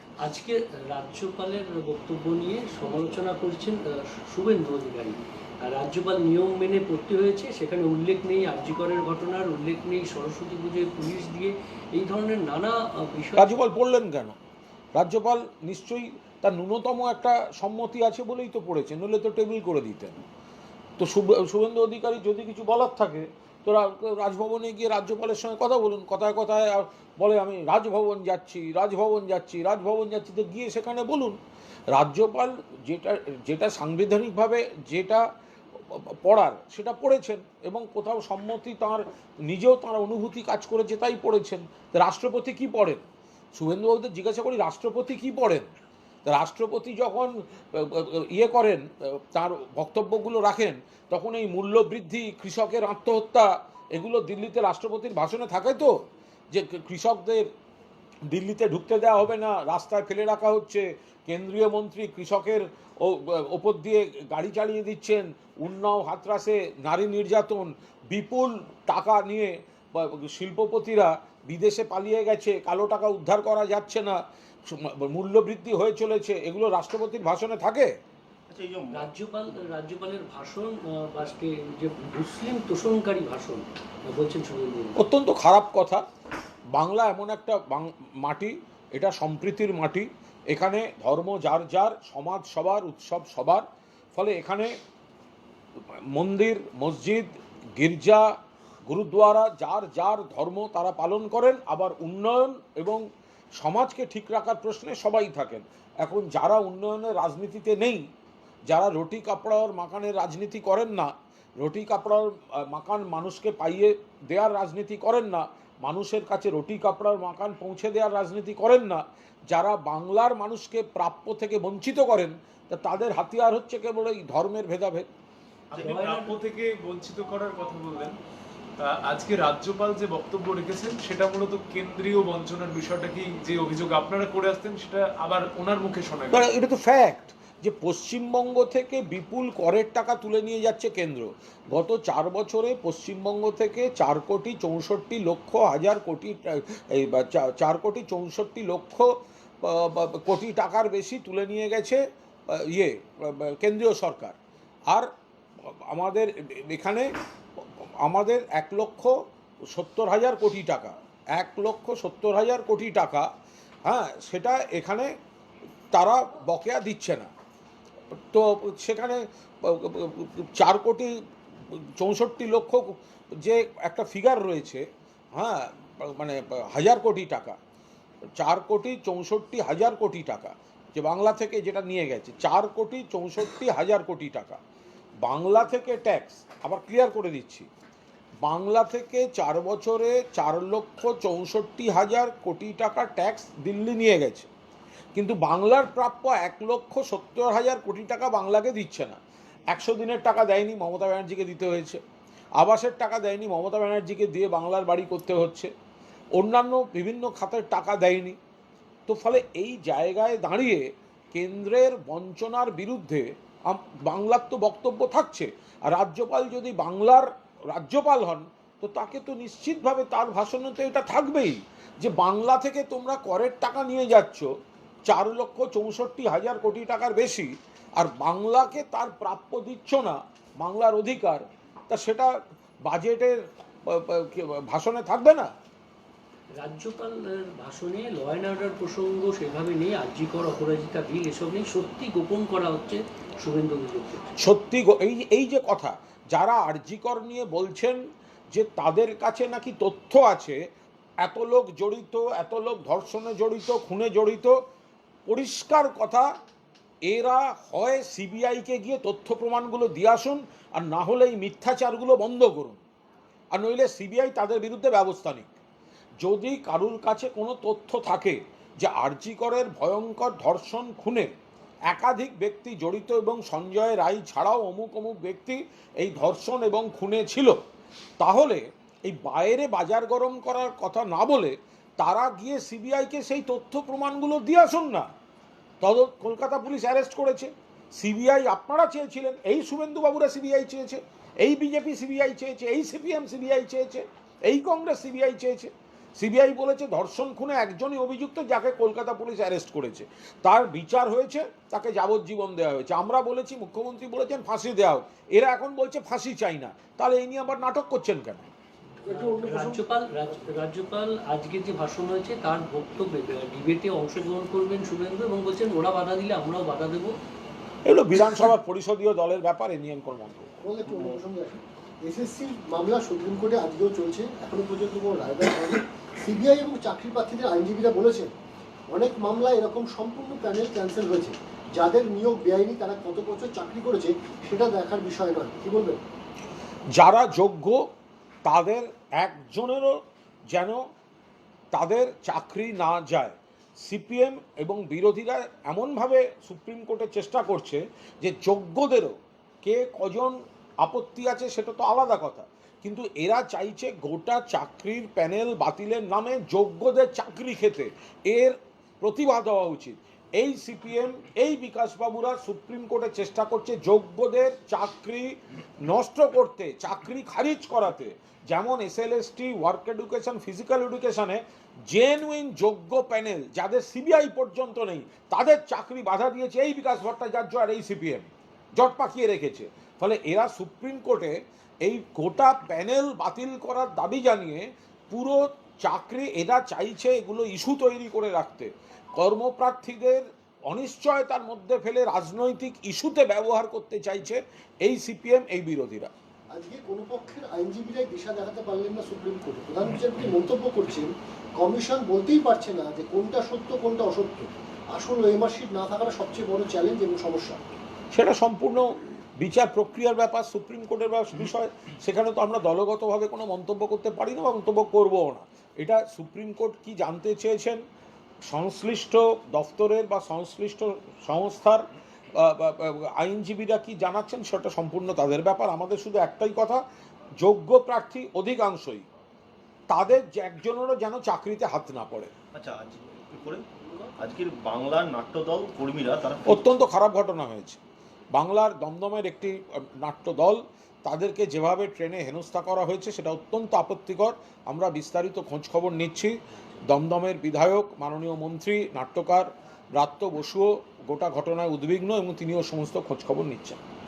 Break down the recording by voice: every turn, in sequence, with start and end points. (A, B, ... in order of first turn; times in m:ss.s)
0:00.2-0:13.6 A
0:13.4-0:14.4 B
0:14.9-0:20.2 B
0:21.0-0:31.4 B
0:31.9-0:35.2 B
0:35.8-0:43.0 B
0:43.6-0:45.7 B
0:46.2-0:55.9 B
0:56.5-0:57.4 B
0:58.3-1:17.9 B
1:18.5-1:19.1 C
1:18.9-1:25.0 A
1:25.0-1:26.0 B
1:26.7-1:34.7 B
1:36.1-1:38.3 B
1:38.9-1:43.0 B
1:43.6-1:48.1 B
1:48.7-2:05.1 B
2:05.7-2:08.2 D
2:05.8-2:06.1 A
2:08.8-2:16.5 D
2:16.3-2:29.1 B
2:29.6-2:34.4 B
2:35.6-2:43.3 B
2:43.8-2:45.1 B
2:45.9-2:47.3 B
2:48.1-2:51.1 B
2:51.7-2:57.6 B
2:58.4-3:04.6 B
3:05.2-3:07.7 B
3:08.4-3:14.5 B
3:15.1-3:19.2 B
3:19.7-3:22.0 B
3:22.6-3:25.7 B
3:26.4-3:28.4 B
3:29.1-3:44.5 B
3:45.1-3:52.3 B
3:52.8-3:55.5 B
3:56.6-4:04.3 A
4:04.4-4:08.0 B
4:08.5-4:10.6 B
4:11.2-4:14.6 B
4:15.3-4:16.3 B
4:17.1-4:22.8 B
4:23.5-4:25.5 B
4:26.2-4:31.3 B
4:31.9-4:37.6 B
4:38.2-4:45.1 B
4:45.8-5:08.5 B
5:09.0-5:09.8 E
5:09.1-5:17.1 A
5:17.8-5:20.6 B
5:20.6-5:28.3 E
5:20.8-5:21.2 C
5:28.9-5:36.0 E
5:36.9-5:37.8 B
5:38.4-5:40.8 B
5:41.7-6:36.1 B
6:36.5-6:47.6 E
6:48.1-6:57.8 B
6:58.5-7:01.8 B
7:02.3-7:06.8 B
7:07.4-7:09.0 B
7:09.9-7:12.3 B
7:12.5-7:13.6 C
7:14.2-7:16.7 C
7:16.5-7:17.8 B
7:18.3-7:26.3 B
7:26.8-7:33.8 B